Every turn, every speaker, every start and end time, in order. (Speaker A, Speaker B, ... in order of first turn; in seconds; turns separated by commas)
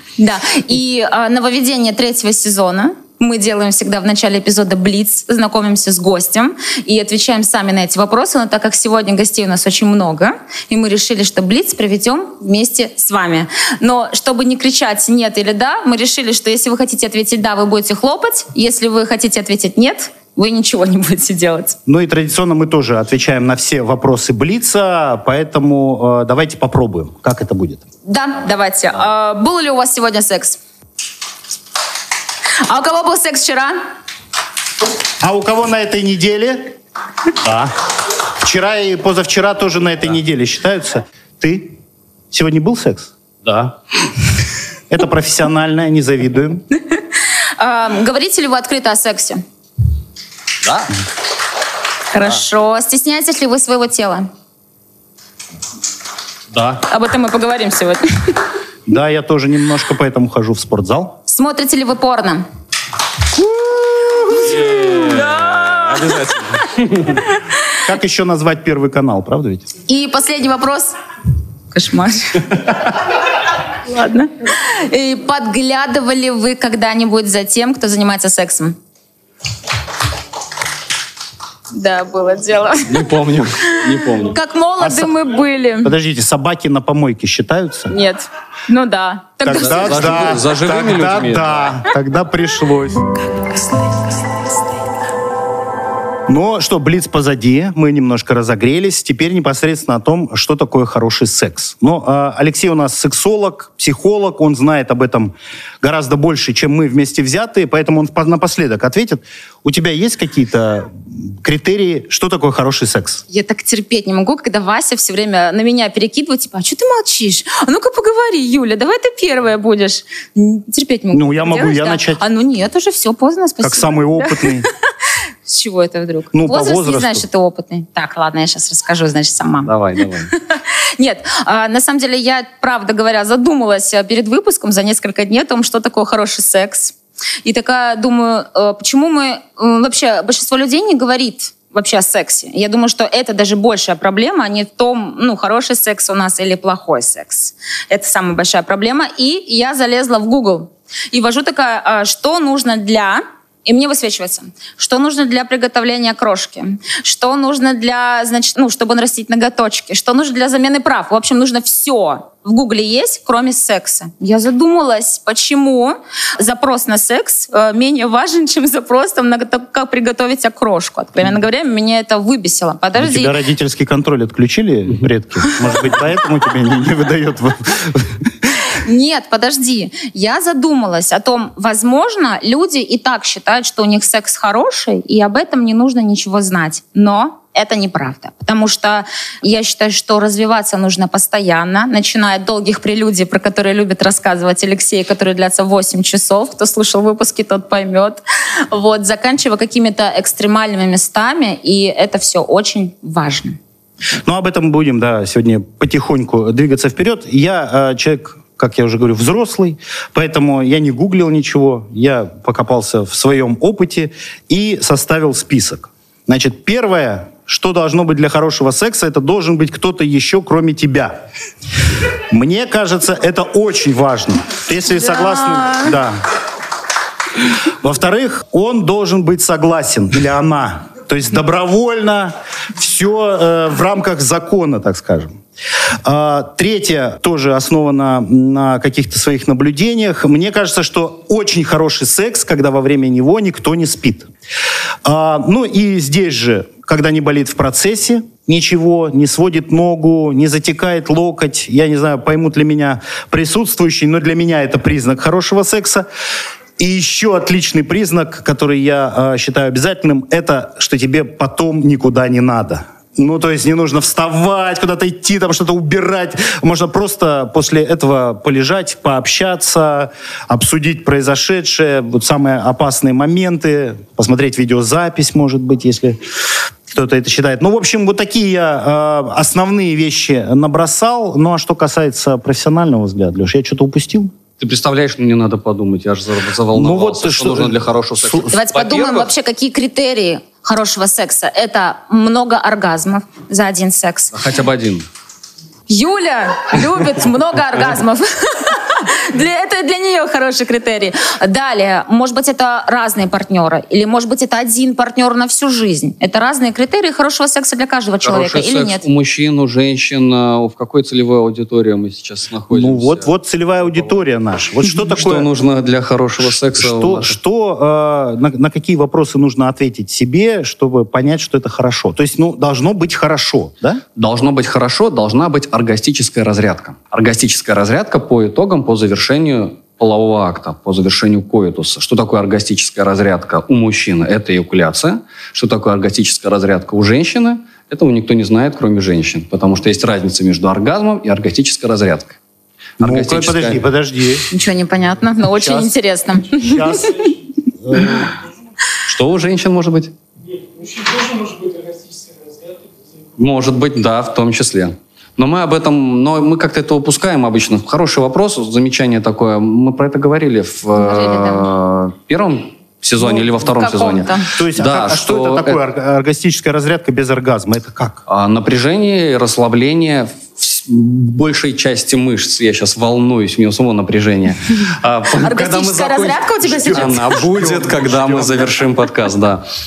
Speaker A: 0.2-21.8, Speaker B: 21.9-27.8, Speaker A: 28.1-30.6, Speaker A: 32.6-33.8, Speaker B: 35.2-36.7, Speaker B: 37.4-37.7, Speaker B: 38.4-41.8, Speaker B: 42.3-43.1, Speaker C: 43.4-43.8, Speaker B: 44.9-46.6, Speaker A: 47.6-49.4, Speaker C: 50.6-50.9, Speaker A: 52.1-54.3, Speaker C: 56.5-56.8, Speaker A: 56.9-58.4, Speaker B: 58.9-61.2, Speaker A: 61.3-62.4, Speaker A: 64.5-66.3, Speaker C: 64.7-67.2, Speaker B: 67.8-69.7, Speaker A: 69.9-70.9, Speaker A: 71.7-72.9, Speaker A: 73.7-78.8, Speaker A: 81.7-83.1, Speaker C: 82.9-84.3, Speaker A: 83.7-85.9, Speaker B: 84.8-85.2, Speaker B: 85.8-87.9, Speaker A: 87.9-90.2, Speaker B: 89.4-93.1, Speaker C: 89.5-91.8, Speaker B: 96.3-113.2, Speaker A: 113.3-124.7, Speaker B: 121.1-122.2, Speaker B: 123.6-124.7, Speaker A: 125.5-173.3, Speaker B: 126.3-127.2, Speaker C: 129.7-130.3, Speaker B: 173.0-178.5, Speaker A: 178.8-203.6, Speaker B: 204.2-221.2, Speaker B: 222.3-226.2, Speaker A: 225.0-225.9, Speaker B: 227.8-235.4, Speaker B: 236.0-244.3, Speaker B: 245.0-256.1, Speaker B: 256.8-276.2, Speaker B: 276.9-284.3, Speaker C: 284.6-289.3, Speaker B: 286.7-288.5, Speaker A: 288.5-294.3, Speaker C: 294.3-295.1, Speaker A: 295.9-309.0, Speaker C: 308.2-313.3, Speaker B: 312.7-315.5, Speaker C: 314.8-317.4, Speaker B: 316.4-324.0, Speaker C: 324.1-342.4, Speaker C: 343.0-343.8, Speaker B: 343.0-344.5, Speaker A: 344.5-347.3, Speaker B: 345.5-345.9, Speaker B: 346.5-347.3, Speaker B: 347.8-348.3, Speaker C: 349.1-350.1, Speaker C: 353.4-365.8, Speaker A: 361.0-361.7, Speaker A: 363.2-364.5, Speaker B: 364.5-368.2, Speaker C: 368.3-379.6, Speaker A: 375.3-377.6, Speaker B: 376.8-378.7